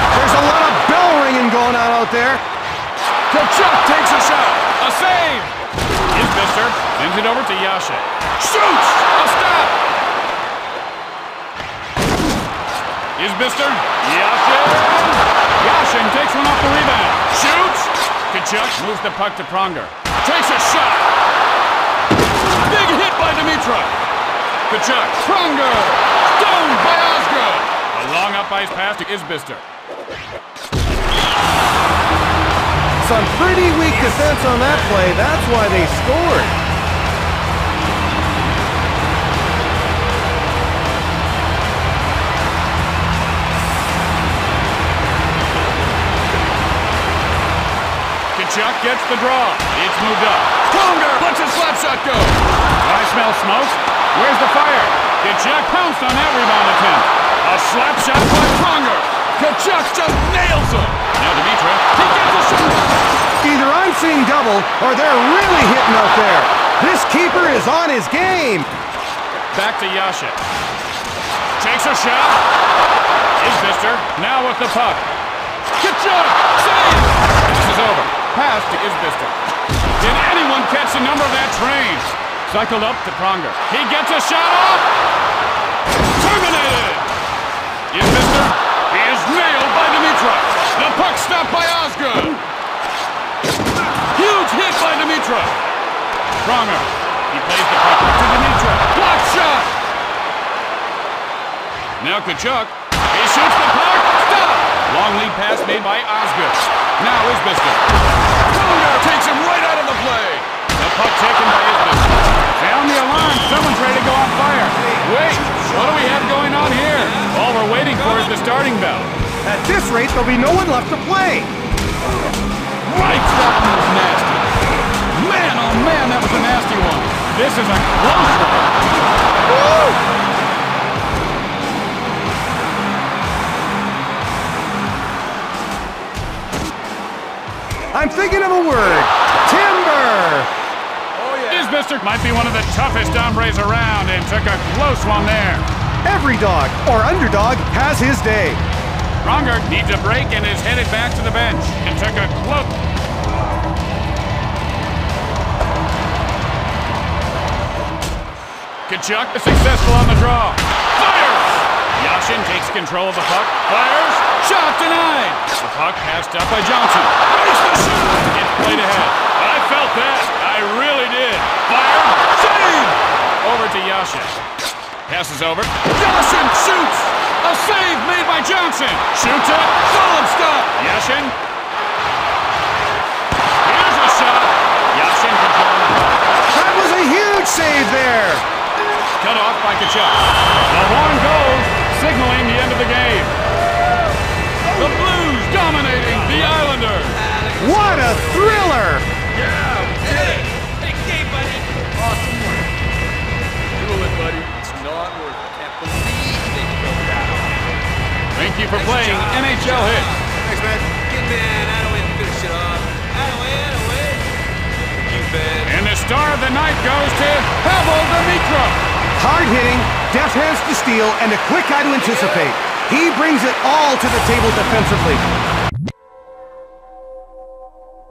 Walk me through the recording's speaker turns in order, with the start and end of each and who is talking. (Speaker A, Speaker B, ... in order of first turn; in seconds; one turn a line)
Speaker A: 0.1-2.4
Speaker B: 3.3-5.5
Speaker B: 6.1-9.7
Speaker B: 13.2-21.1
Speaker B: 22.5-23.9
Speaker B: 24.7-29.6
Speaker A: 33.0-36.5
Speaker B: 48.3-62.8
Speaker A: 63.4-68.7
Speaker B: 69.5-70.4
Speaker B: 71.6-72.4
Speaker B: 73.4-75.1
Speaker B: 75.8-79.3
Speaker B: 80.0-84.9
Speaker B: 86.2-87.1
Speaker B: 87.9-92.4
Speaker B: 94.1-95.6
Speaker B: 96.4-99.7
Speaker B: 102.0-107.8
Speaker B: 108.5-119.1
Speaker A: 114.8-116.2
Speaker A: 119.4-121.5
Speaker B: 122.8-124.5
Speaker B: 125.1-128.8
Speaker A: 129.5-129.9
Speaker A: 137.9-140.5
Speaker B: 141.4-145.7
Speaker A: 146.1-148.6
Speaker B: 149.2-152.7
Speaker B: 158.9-174.3
Speaker B: 175.1-181.3
Speaker B: 183.6-186.2
Speaker A: 186.5-188.4
Speaker B: 189.2-193.3
Speaker B: 194.7-197.3
Speaker C: 197.3-198.5
Speaker A: 197.6-199.0
Speaker C: 199.6-201.6
Speaker C: 202.2-202.6
Speaker C: 203.8-207.5
Speaker B: 208.3-210.2
Speaker C: 208.9-214.3
Speaker C: 215.1-215.6
Speaker B: 215.6-218.8
Speaker A: 219.2-225.2